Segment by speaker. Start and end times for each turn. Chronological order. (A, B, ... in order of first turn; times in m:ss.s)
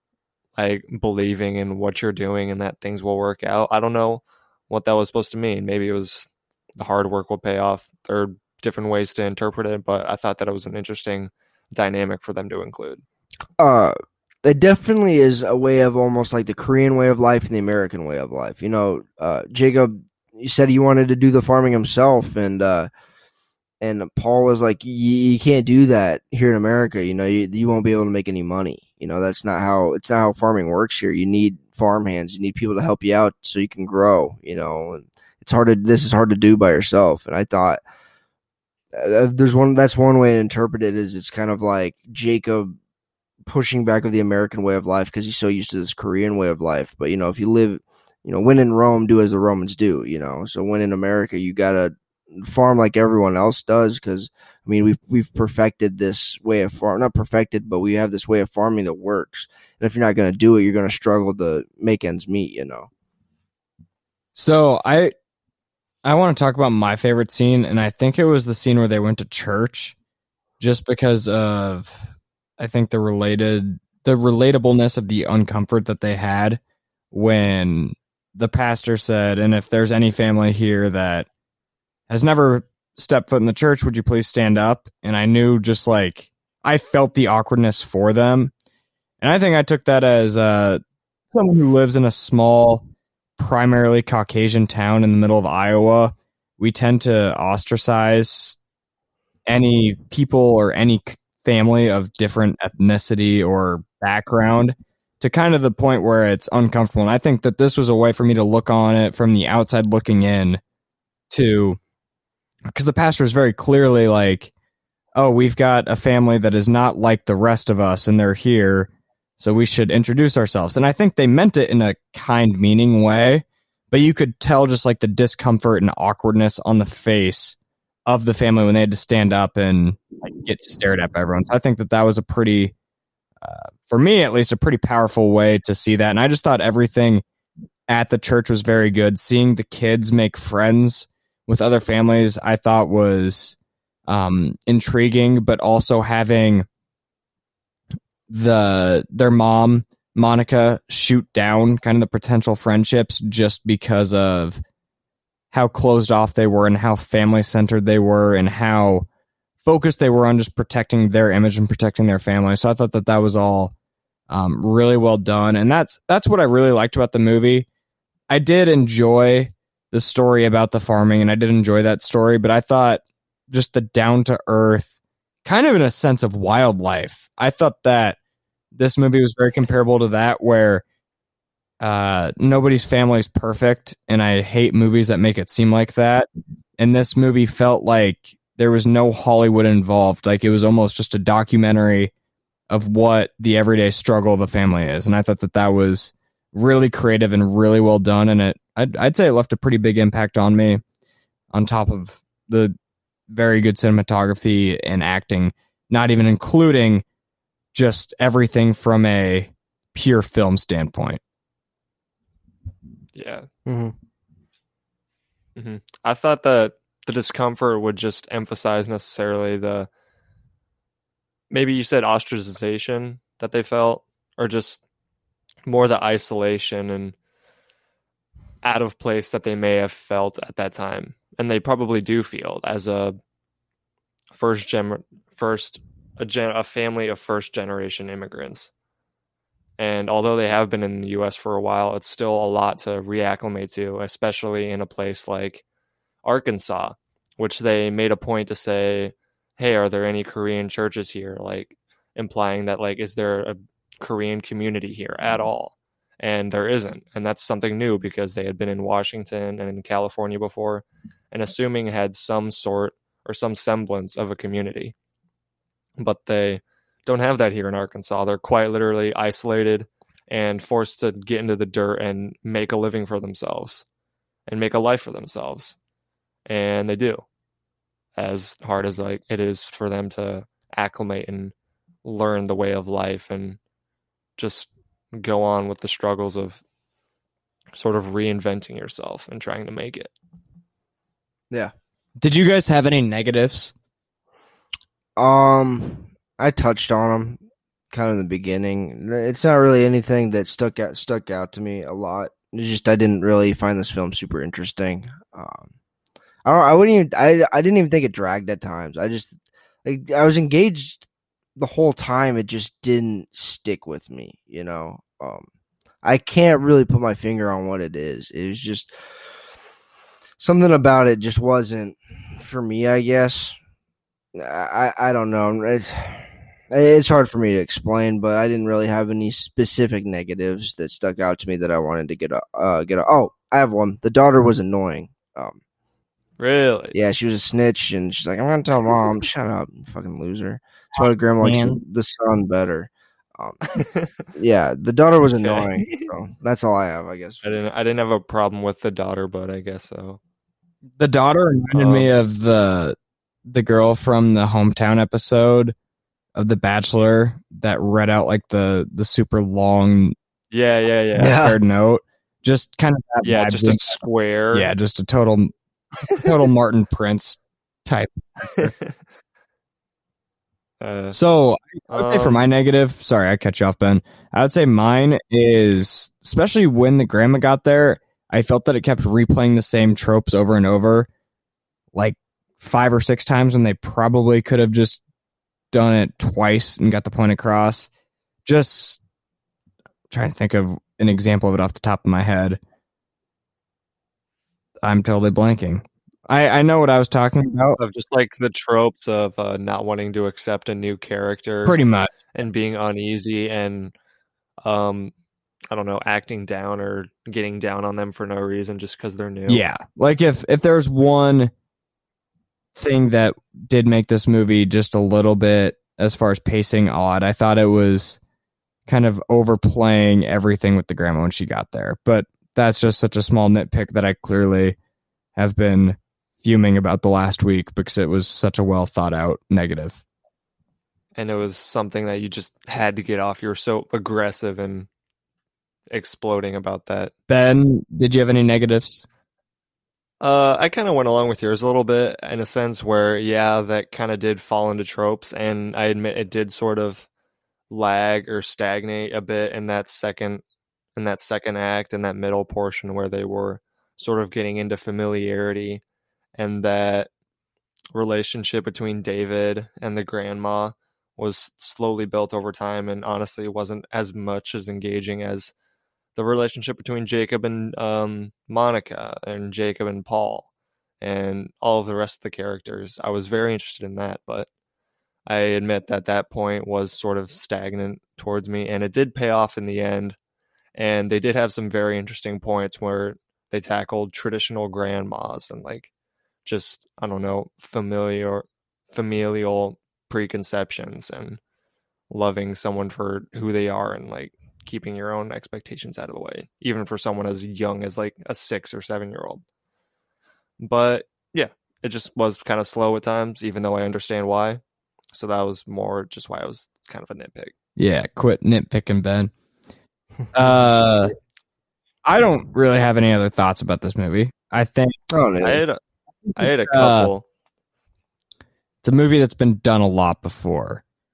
0:00.6-0:13.0 A
0:13.6-0:22.9 B
0:23.8-0:37.8 B
0:38.9-0:42.8 B
0:43.5-1:02.9 B
1:04.4-1:05.1 C
1:06.0-1:09.9 C
1:10.6-1:16.6 C
1:17.1-1:21.3 C
1:22.1-1:28.5 C
1:29.2-1:32.8 C
1:33.4-1:38.6 C
1:39.5-1:50.6 C
1:51.3-1:51.8 C
1:52.7-1:54.5 C
1:55.2-1:58.9 C
1:59.4-2:07.6 C
2:08.1-2:12.7 C
2:13.4-2:17.2 C
2:17.9-2:23.6 C
2:24.1-2:26.7 C
2:28.3-2:34.6 C
2:35.5-2:39.1 C
2:39.6-2:43.7 C
2:44.3-2:47.7 C
2:48.3-2:54.9 C
2:55.4-2:58.2 C
2:58.8-3:00.8 C
3:01.8-3:06.3 C
3:06.8-3:12.1 C
3:12.7-3:20.8 C
3:21.5-3:22.8 C
3:23.3-3:27.0 C
3:27.7-3:31.2 C
3:33.2-3:33.5 A
3:33.7-3:33.9 B
3:35.6-3:39.9 A
3:41.5-3:44.8 A
3:45.7-3:47.2 A
3:48.6-3:53.2 A
3:54.3-3:58.7 A
3:59.8-4:05.6 A
4:06.2-4:24.9 A
4:26.0-4:33.8 A
4:34.5-4:35.8 A
4:36.5-4:37.2 A
4:38.2-4:41.5 A
4:42.0-4:43.6 A
4:44.4-4:46.6 A
4:47.7-4:50.1 A
4:52.2-4:53.7 C
4:55.2-5:05.7 B
5:06.4-5:11.1 B
5:11.6-5:15.5 B
5:16.0-5:18.9 B
5:20.4-5:23.6 B
5:24.4-5:35.6 B
5:36.4-5:37.0 A
5:36.9-5:43.6 B
5:41.4-5:41.8 C
5:43.8-5:44.2 A
5:44.4-5:47.5 B
5:45.4-5:46.1 A
5:47.4-5:50.2 A
5:51.0-5:55.7 C
5:51.7-5:52.1 A
5:56.4-6:00.2 C
6:00.5-6:01.4 A
6:01.2-6:01.6 B
6:01.4-6:04.0 C
6:03.2-6:04.7 A
6:04.5-6:05.5 C
6:06.1-6:08.7 C
6:08.6-6:09.0 A
6:10.8-6:11.2 A
6:11.1-6:21.1 C
6:11.9-6:12.4 A
6:21.9-6:25.0 C
6:25.7-6:27.9 C
6:28.5-6:29.0 C
6:30.1-6:32.6 C
6:34.8-6:37.8 C
6:37.8-6:41.8 A
6:41.6-6:42.1 C
6:42.3-6:43.9 A
6:44.6-6:45.1 A
6:45.7-6:49.6 A
6:49.5-6:51.5 C
6:52.8-6:58.2 C
6:58.9-7:04.8 C
7:05.4-7:10.0 C
7:11.2-7:14.9 A
7:15.9-7:17.1 A
7:17.3-7:19.0 C
7:20.2-7:27.1 A
7:27.7-7:30.4 A
7:31.0-7:35.8 A
7:36.4-7:37.1 A
7:37.9-7:45.5 A
7:46.2-7:50.5 A
7:51.0-7:54.5 A
7:55.3-8:00.2 A
8:00.8-8:05.9 A
8:06.4-8:11.4 A
8:12.1-8:19.4 A
8:20.6-8:24.6 A
8:25.1-8:27.5 A
8:27.8-8:29.3 C
8:30.3-8:31.1 C
8:32.0-8:35.0 C
8:35.1-8:35.6 B
8:35.4-8:35.8 A
8:36.3-8:37.1 C
8:36.4-8:37.2 A
8:38.8-8:40.8 C